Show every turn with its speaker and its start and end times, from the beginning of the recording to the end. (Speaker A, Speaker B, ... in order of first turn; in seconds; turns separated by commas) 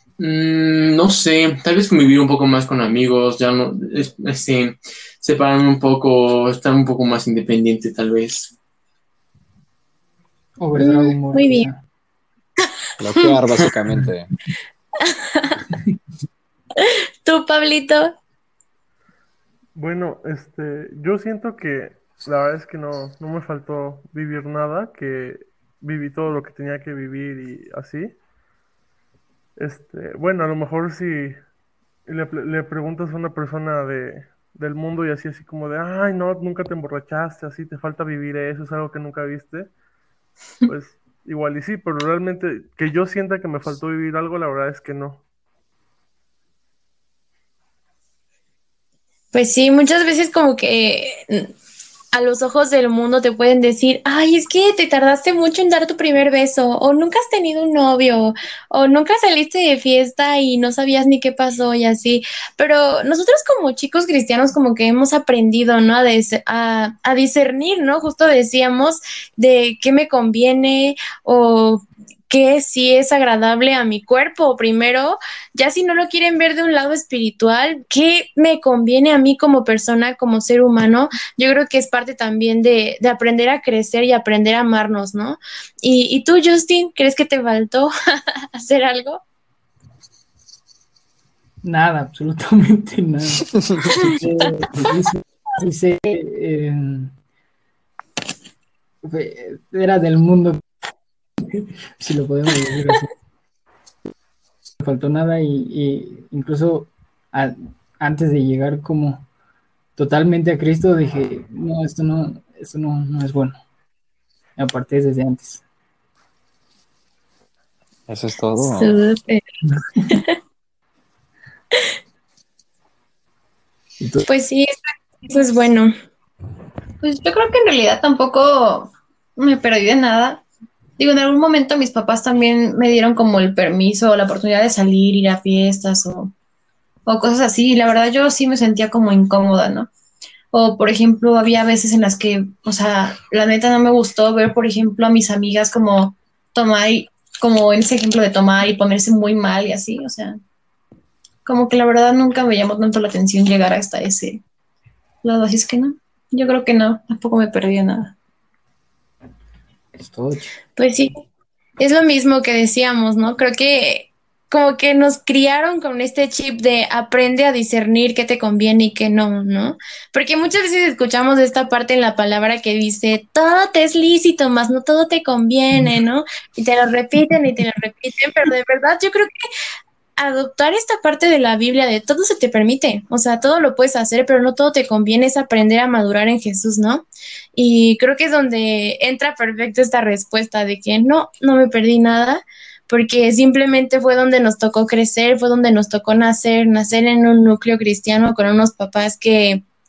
Speaker A: 0.2-8.5, Speaker B: 10.6-11.8, Speaker C: 10.8-11.7, Speaker D: 13.0-14.3, Speaker C: 15.1-15.5, Speaker C: 16.8-18.1, Speaker E: 19.8-28.1, Speaker E: 29.6-31.4, Speaker E: 32.1-39.7, Speaker E: 40.6-45.2, Speaker C: 49.3-51.5, Speaker C: 52.1-87.9, Speaker C: 88.5-89.2, Speaker B: 91.6-97.2, Speaker B: 99.0-100.6, Speaker B: 101.5-103.1, Speaker B: 104.8-109.3, Speaker B: 110.0-113.6, Speaker B: 114.6-115.6, Speaker D: 118.1-119.0, Speaker C: 118.6-119.4, Speaker C: 120.1-120.3, Speaker B: 124.0-124.2, Speaker C: 124.2-124.7, Speaker C: 125.2-125.9, Speaker F: 127.0-130.4, Speaker F: 131.0-136.3, Speaker F: 137.1-139.9, Speaker F: 140.5-150.4, Speaker F: 151.4-154.4, Speaker F: 155.2-158.1, Speaker B: 160.0-160.5, Speaker C: 160.8-161.1, Speaker C: 161.8-179.3, Speaker C: 180.2-199.6